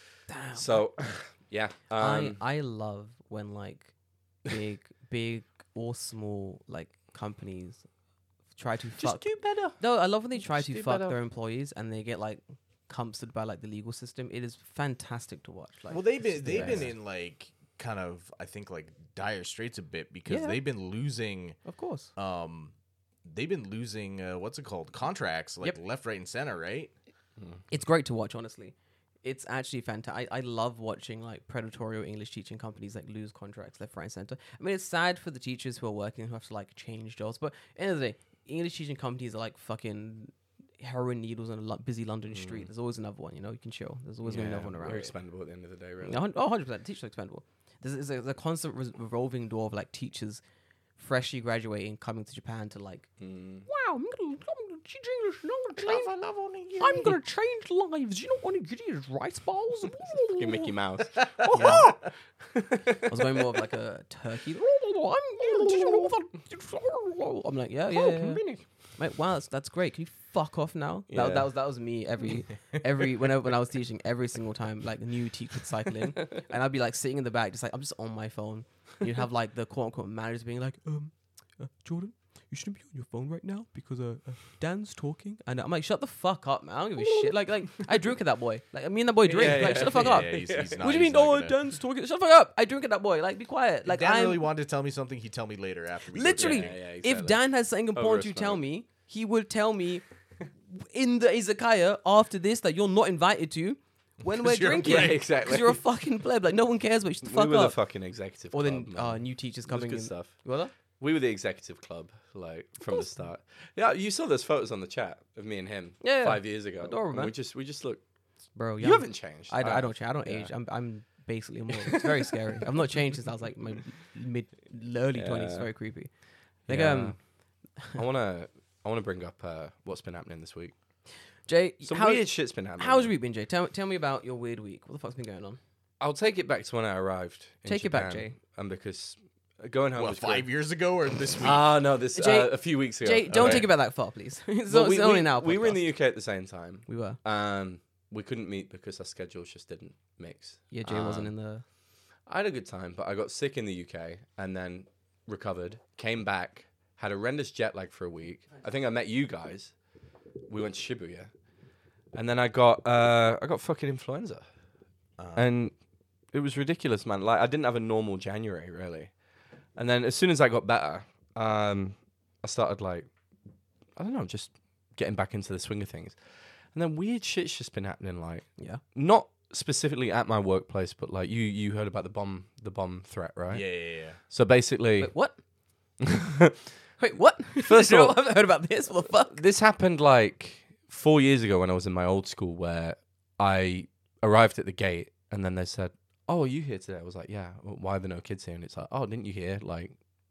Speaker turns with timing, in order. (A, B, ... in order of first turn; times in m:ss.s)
0:00.3-0:00.8 A
0:00.5-0:02.4 B
0:02.0-0:03.9 A
0:04.4-0:07.8 A
0:08.6-0:16.9 A
0:09.0-0:09.8 B
0:10.4-0:11.2 B
0:15.9-0:21.6 C
0:16.5-0:16.9 B
0:20.3-0:20.6 A
0:21.7-0:22.1 A
0:22.2-0:22.7 C
0:23.2-0:26.9 C
0:27.7-0:45.1 A
0:42.3-0:42.7 B
0:44.2-0:46.2 B
0:46.0-0:50.4 A
0:51.0-0:53.1 A
0:53.2-0:53.7 B
0:53.7-0:56.1 A
0:55.8-0:57.1 C
0:56.8-1:00.8 A
1:00.3-1:03.4 B
1:01.2-1:02.1 C
1:01.5-1:01.9 A
1:03.0-1:08.4 A
1:05.4-1:06.1 B
1:07.9-1:08.6 B
1:09.0-1:34.5 A
1:11.1-1:11.5 B
1:27.0-1:27.3 B
1:29.3-1:30.8 B
1:29.4-1:31.6 C
1:33.9-1:36.8 C
1:36.1-1:40.0 A
1:36.4-1:37.4 B
1:37.9-1:38.6 B
1:40.7-1:47.8 A
1:44.3-1:45.2 C
1:44.8-1:45.8 B
1:47.2-1:50.4 B
1:48.5-1:50.7 A
1:51.0-1:58.0 B
1:56.0-1:57.3 A
1:58.6-2:06.1 A
1:58.8-2:00.5 B
2:01.9-2:02.6 B
2:05.1-2:05.7 B
2:06.7-2:07.2 A
2:06.7-2:07.2 B
2:07.9-2:10.8 B
2:11.5-2:15.6 A
2:11.8-2:13.1 B
2:16.0-2:20.5 B
2:17.6-2:18.4 A
2:20.0-2:21.7 C
2:21.4-2:23.7 B
2:22.1-2:25.9 A
2:23.3-2:23.7 C
2:24.7-2:31.3 B
2:26.9-2:27.2 A
2:30.7-2:31.6 A
2:32.3-2:39.8 B
2:40.5-2:41.3 B
2:42.1-2:44.4 B
2:45.2-2:45.5 C
2:45.3-2:45.8 B
2:46.3-2:49.1 B
2:49.8-2:53.1 B
2:54.0-2:56.2 B
2:56.7-3:05.1 B
3:03.5-3:04.2 C
3:05.0-3:05.4 A
3:06.0-3:06.6 B
3:07.0-3:09.4 A
3:07.6-3:08.2 B
3:09.1-3:20.0 B